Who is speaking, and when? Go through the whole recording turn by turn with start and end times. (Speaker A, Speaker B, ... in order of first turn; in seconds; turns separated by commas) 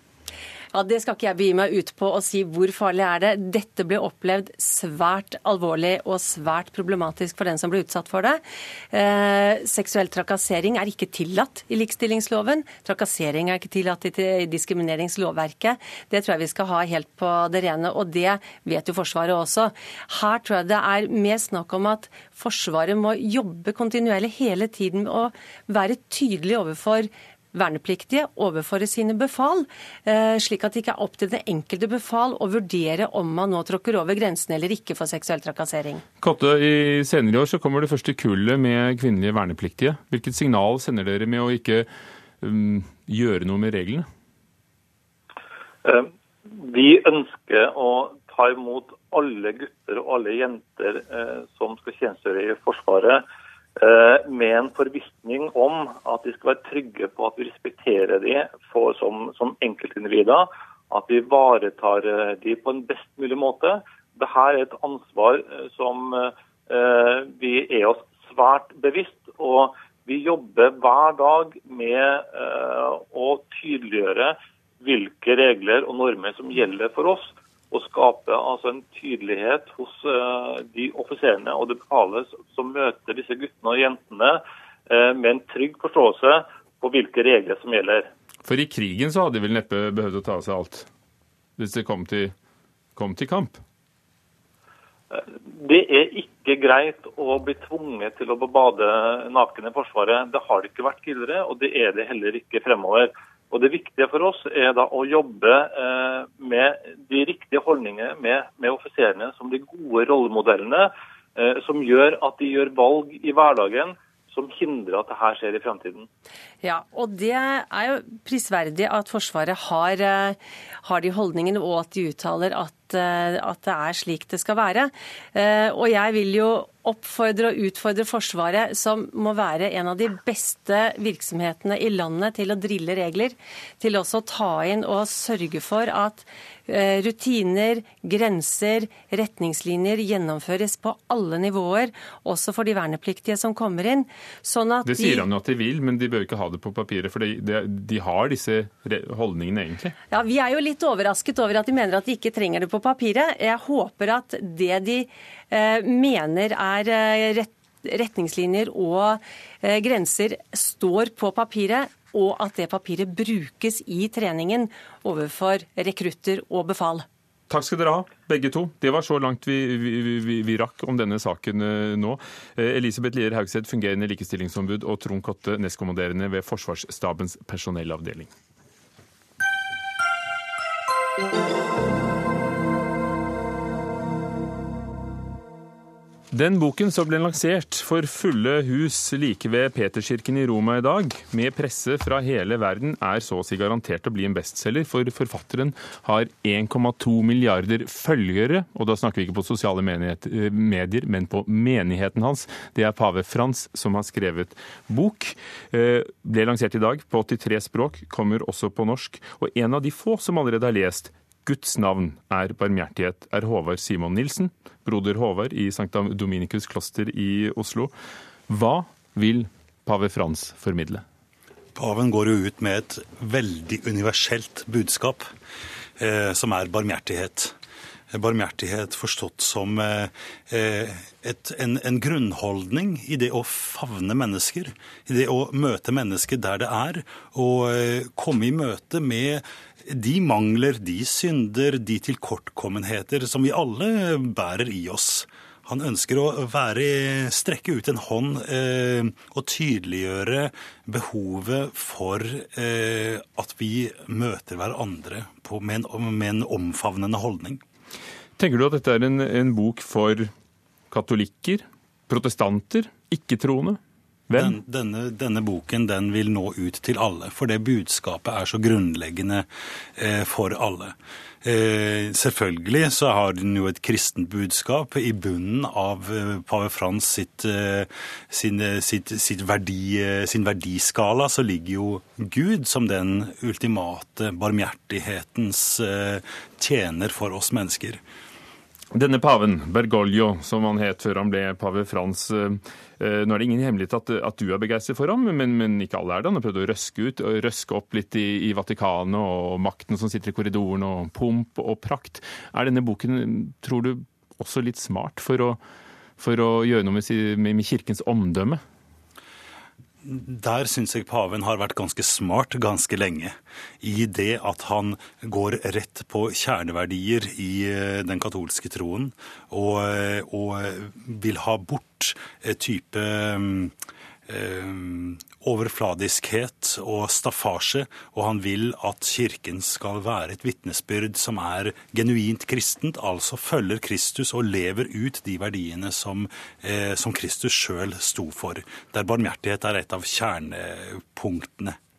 Speaker A: 0.7-36.0, Speaker B: 36.2-41.9, Speaker B: 42.4-44.1, Speaker C: 45.9-53.2, Speaker C: 53.8-88.1, Speaker B: 88.5-90.9, Speaker B: 91.6-92.3, Speaker B: 93.0-93.6, Speaker C: 95.1-116.1, Speaker A: 116.6-145.3, Speaker B: 144.8-149.9, Speaker A: 150.1-167.1, Speaker B: 167.5-178.3, Speaker B: 186.3-217.9, Speaker B: 218.5-221.0, Speaker D: 221.8-225.3, Speaker D: 226.0-227.5, Speaker D: 228.1-257.6, Speaker B: 258.4-260.3, Speaker B: 260.9-264.6, Speaker D: 264.3-269.5, Speaker D: 270.0-288.0, Speaker B: 288.9-305.6, Speaker B: 306.2-308.6, Speaker D: 310.0-323.7, Speaker D: 324.3-341.8